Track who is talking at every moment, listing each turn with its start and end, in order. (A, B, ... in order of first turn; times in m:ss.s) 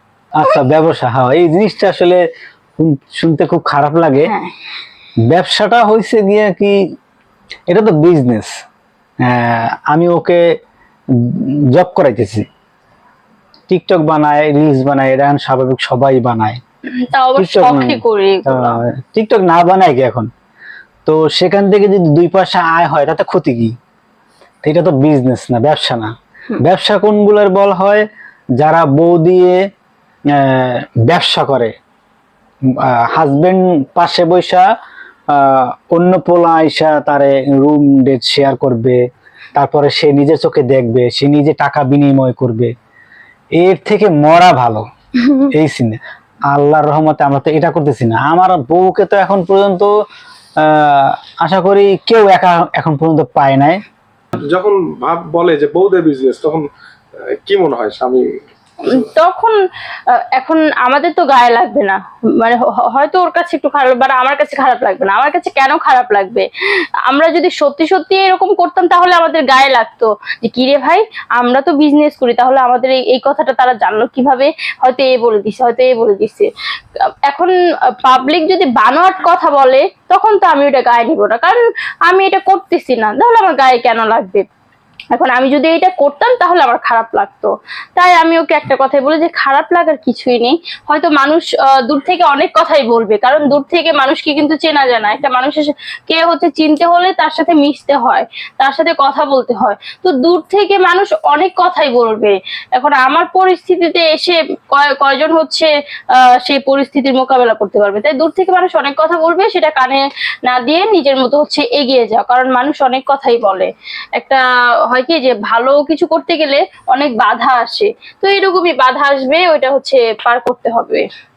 0:00.4-0:02.2 A
0:02.8-0:04.3 A
0:04.3-0:04.5 B
0:05.3-0:06.8 A
0:07.7-0:08.5 A
0:09.2-0:10.4 A
0:11.2-0:12.5 A
0:13.7-0:16.6 A
0:17.1-0:18.8 B
0:17.4-0:20.3 A
0:21.1-0:23.8 A
0:24.6-0:28.1 A
0:28.6-0:29.6 A
0:30.3-0:31.8 A
0:32.7-0:34.7 A
0:35.3-0:39.0 A
0:39.6-0:42.7 A
0:43.6-0:49.9 A
0:50.6-0:53.8 A
0:54.3-0:56.7 C
0:57.2-0:58.4 C
0:58.8-1:24.5 B
1:25.1-2:01.1 B